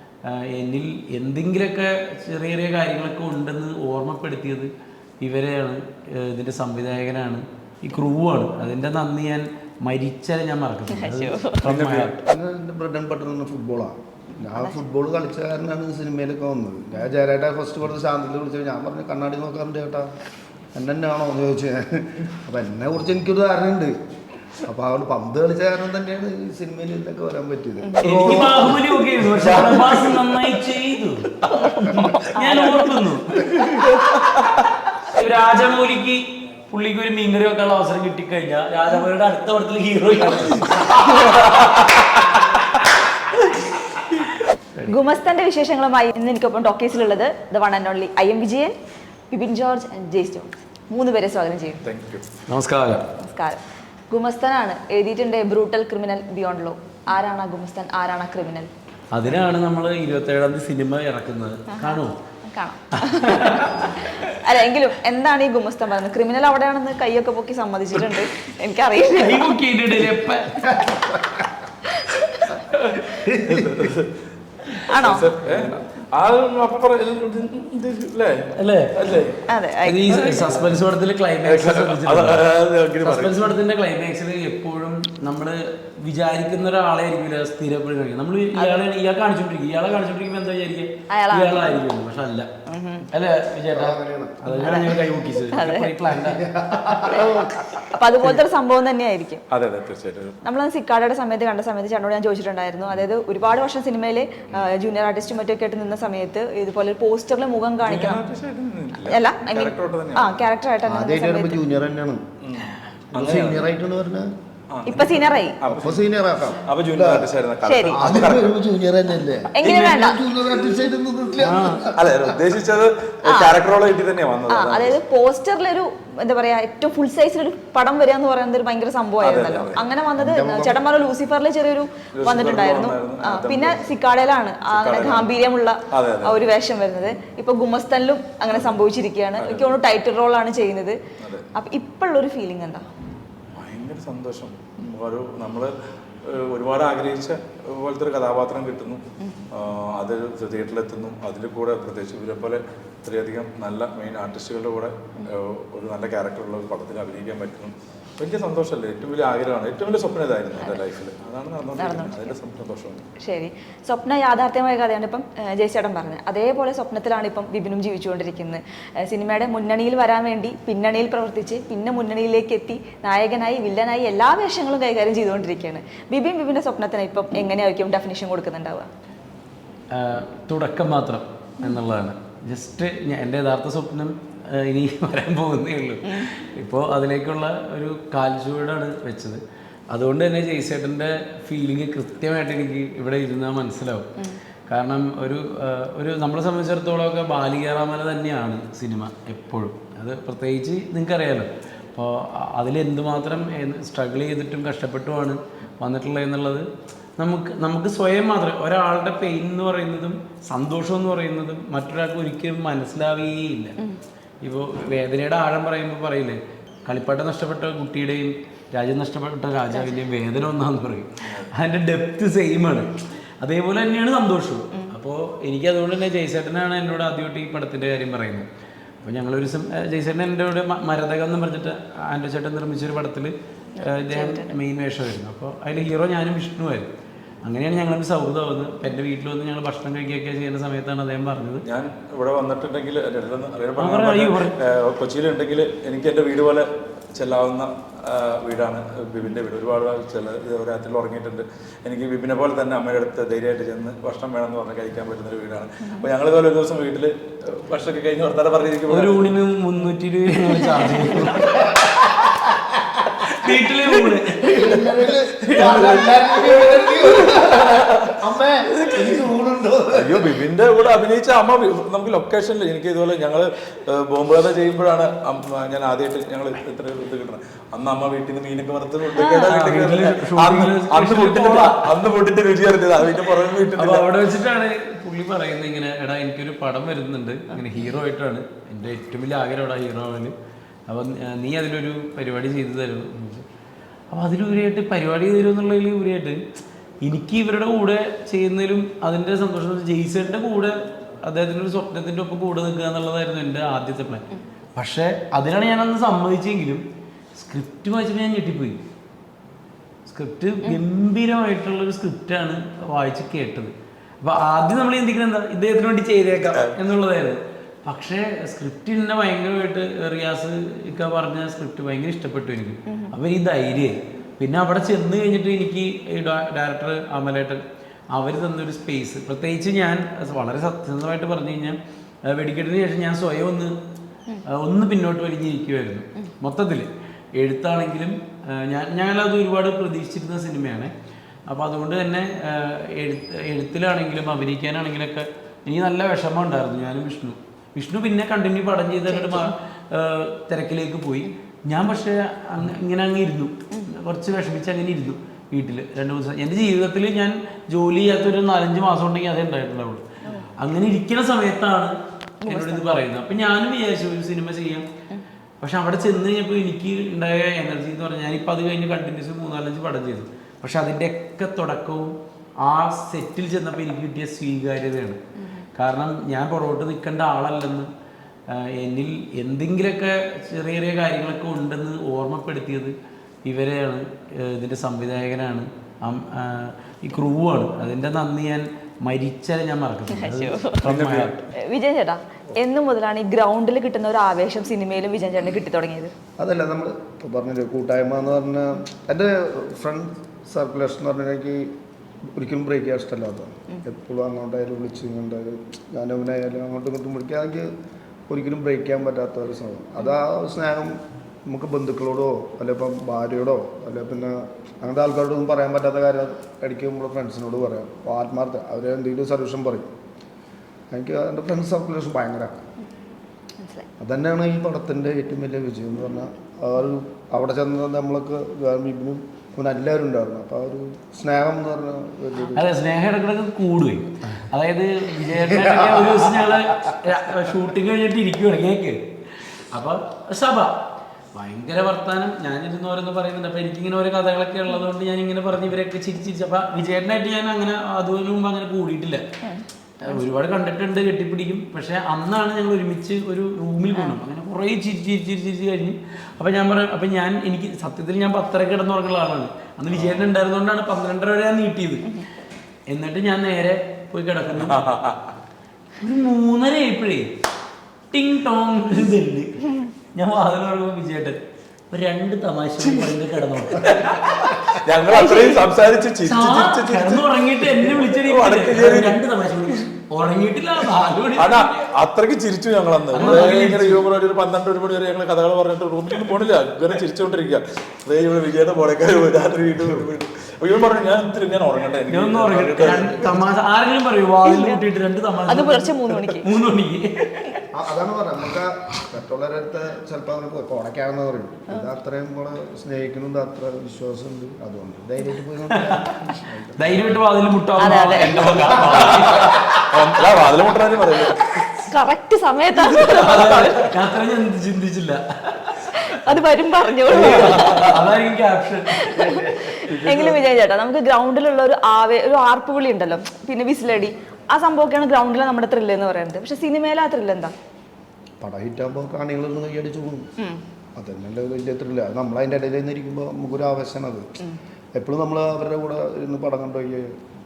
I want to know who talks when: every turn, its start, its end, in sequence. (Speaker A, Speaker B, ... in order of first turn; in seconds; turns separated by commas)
Speaker A: 0.2-12.2, Speaker B: 10.9-11.7, Speaker C: 11.6-12.1, Speaker D: 12.2-20.1, Speaker B: 14.5-14.8, Speaker D: 20.7-24.0, Speaker D: 24.6-29.7, Speaker B: 27.8-28.6, Speaker A: 28.0-33.7, Speaker C: 29.4-30.2, Speaker B: 31.6-32.9, Speaker C: 33.6-34.6, Speaker B: 33.8-34.1, Speaker A: 35.0-41.4, Speaker C: 41.0-42.5, Speaker B: 44.9-48.7, Speaker B: 49.3-51.8, Speaker C: 51.8-52.3, Speaker A: 52.5-53.1, Speaker B: 53.2-58.7, Speaker A: 59.1-62.1, Speaker B: 61.7-69.5, Speaker A: 63.0-64.3, Speaker A: 69.1-70.8, Speaker D: 70.8-71.6, Speaker B: 71.8-72.6, Speaker C: 72.6-79.4, Speaker D: 73.2-73.8, Speaker B: 74.8-75.2, Speaker A: 78.6-79.0, Speaker B: 79.5-80.1, Speaker A: 79.8-82.5, Speaker C: 80.1-80.7, Speaker C: 81.4-83.4, Speaker A: 83.0-92.5, Speaker B: 88.5-88.8, Speaker B: 91.1-91.8, Speaker B: 92.7-93.1, Speaker A: 93.1-96.4, Speaker D: 93.7-94.7, Speaker B: 94.6-95.9, Speaker D: 96.1-97.4, Speaker A: 97.1-97.8, Speaker B: 97.1-99.4, Speaker C: 99.5-100.4, Speaker B: 100.4-108.2, Speaker C: 107.8-110.4, Speaker B: 109.0-111.6, Speaker D: 110.8-112.2, Speaker C: 112.4-113.7, Speaker D: 113.1-114.3, Speaker C: 114.7-116.0, Speaker B: 114.8-115.6, Speaker D: 114.9-117.3, Speaker C: 116.6-118.6, Speaker B: 117.6-118.0, Speaker D: 117.9-122.2, Speaker B: 119.5-120.3, Speaker C: 119.6-120.7, Speaker A: 121.4-121.8, Speaker C: 121.9-125.0, Speaker B: 123.2-123.5, Speaker B: 124.5-141.0, Speaker C: 129.2-129.9, Speaker D: 130.2-130.7, Speaker C: 132.1-134.0, Speaker C: 134.7-135.3, Speaker C: 135.9-136.4, Speaker C: 139.4-139.7, Speaker C: 141.2-141.5, Speaker B: 141.5-142.8, Speaker C: 143.6-145.7, Speaker C: 146.2-163.1, Speaker B: 160.6-160.8, Speaker B: 161.7-162.3, Speaker B: 163.2-178.9, Speaker A: 179.9-194.1, Speaker B: 186.0-186.3, Speaker A: 194.7-213.8, Speaker A: 214.4-228.5, Speaker B: 219.7-220.0, Speaker C: 221.2-221.5, Speaker A: 229.0-236.9, Speaker B: 233.8-234.6, Speaker A: 237.4-241.6, Speaker C: 241.6-259.4, Speaker A: 243.8-244.5, Speaker A: 258.9-261.6, Speaker B: 260.6-261.2, Speaker D: 261.3-262.4, Speaker A: 263.2-264.8, Speaker D: 264.4-270.4, Speaker C: 265.5-268.1, Speaker C: 268.8-269.1, Speaker C: 269.9-284.1, Speaker B: 279.1-279.5, Speaker A: 279.4-281.9, Speaker A: 283.7-290.3, Speaker A: 290.9-293.4, Speaker A: 294.1-296.4, Speaker A: 297.0-306.8, Speaker A: 307.4-308.8, Speaker A: 310.1-327.6, Speaker B: 322.9-323.1, Speaker A: 328.1-333.7, Speaker A: 334.5-340.9, Speaker A: 341.5-360.0, Speaker B: 349.1-349.5, Speaker A: 360.6-361.9, Speaker B: 362.4-362.9, Speaker A: 362.5-364.8, Speaker A: 365.6-375.2, Speaker B: 375.4-375.6, Speaker A: 375.8-377.9, Speaker A: 378.5-382.9, Speaker A: 383.4-391.4, Speaker B: 390.1-390.8, Speaker C: 390.8-391.4, Speaker B: 391.5-396.1, Speaker D: 396.4-401.7, Speaker D: 402.3-407.7, Speaker D: 408.3-419.9, Speaker D: 420.9-422.6, Speaker B: 423.6-423.9, Speaker D: 424.0-432.7, Speaker A: 432.5-439.0, Speaker D: 435.3-436.9, Speaker A: 439.7-440.8, Speaker A: 441.3-449.2, Speaker B: 449.4-450.2, Speaker A: 450.0-462.2, Speaker C: 459.9-460.3, Speaker A: 462.9-464.8, Speaker C: 464.5-465.4, Speaker A: 466.0-467.3, Speaker A: 468.1-471.4, Speaker A: 471.9-473.9, Speaker C: 473.7-479.2, Speaker B: 475.1-475.6, Speaker A: 476.2-481.8, Speaker C: 481.4-493.4, Speaker A: 483.1-484.1, Speaker A: 492.1-497.6, Speaker B: 494.4-494.8, Speaker B: 495.5-496.5, Speaker D: 497.7-507.0, Speaker A: 505.7-506.2, Speaker A: 506.8-510.0, Speaker B: 507.8-508.5, Speaker C: 508.3-511.6, Speaker D: 508.7-509.1, Speaker B: 511.8-513.9, Speaker A: 513.0-516.0, Speaker B: 515.9-517.9, Speaker A: 517.1-519.4, Speaker C: 517.2-517.9, Speaker B: 519.0-527.5, Speaker C: 519.7-520.4, Speaker D: 528.4-530.2, Speaker D: 531.0-534.4, Speaker D: 535.0-537.1